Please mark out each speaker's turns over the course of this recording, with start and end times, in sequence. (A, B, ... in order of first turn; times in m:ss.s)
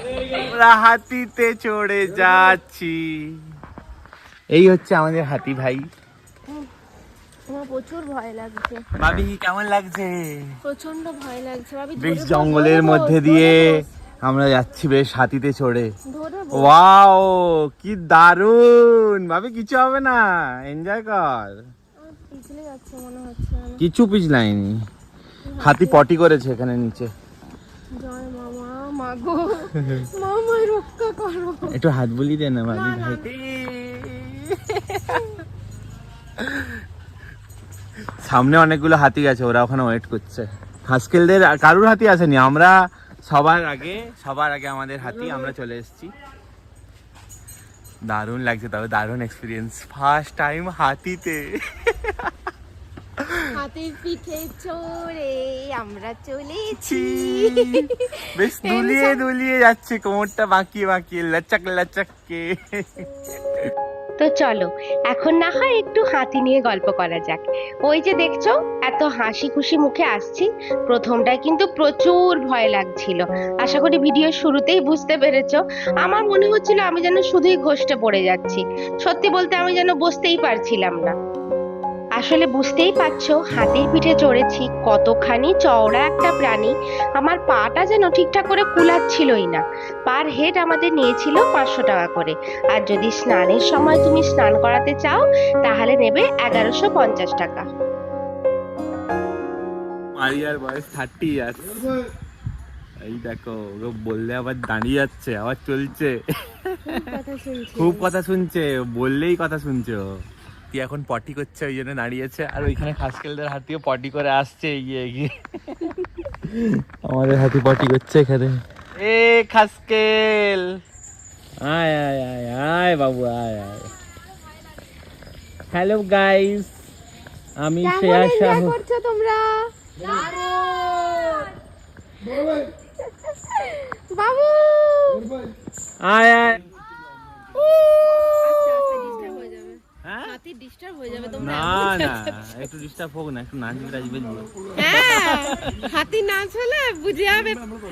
0:00.4-0:03.4 A
0:04.5-0:05.9 A
0:07.5-0:08.8 B
0:09.0-0:10.6 A
0:10.6-0:13.8 B
0:12.0-0:15.9 A
0:16.1-0:16.7 B
0:16.5-0:21.6 A
0:22.0-0:23.8 B
0:23.8-0:24.8 A
0:25.5-0:26.0 B
0:25.6-0:27.1 A
0:27.9-0:31.7 B
0:31.7-0:35.2 A
0:32.7-0:33.2 B
0:38.2-0:46.1 A
0:48.1-0:52.3 A
0:53.2-0:53.4 A
0:53.5-0:58.0 B
0:56.8-0:57.8 A
0:58.3-1:03.0 A
0:58.6-0:59.2 B
1:04.2-1:21.1 C
1:22.2-1:37.6 C
1:40.1-1:41.9 A
1:43.0-1:47.1 A
1:46.9-1:48.1 B
1:47.8-1:50.1 A
1:50.7-1:55.8 A
1:56.4-2:00.8 A
2:01.6-2:03.9 A
2:05.7-2:06.7 A
2:07.6-2:08.8 A
2:07.8-2:11.3 B
2:13.4-2:15.2 B
2:16.0-2:16.6 A
2:18.4-2:22.4 B
2:20.0-2:20.3 A
2:21.4-2:25.7 A
2:24.8-2:27.6 B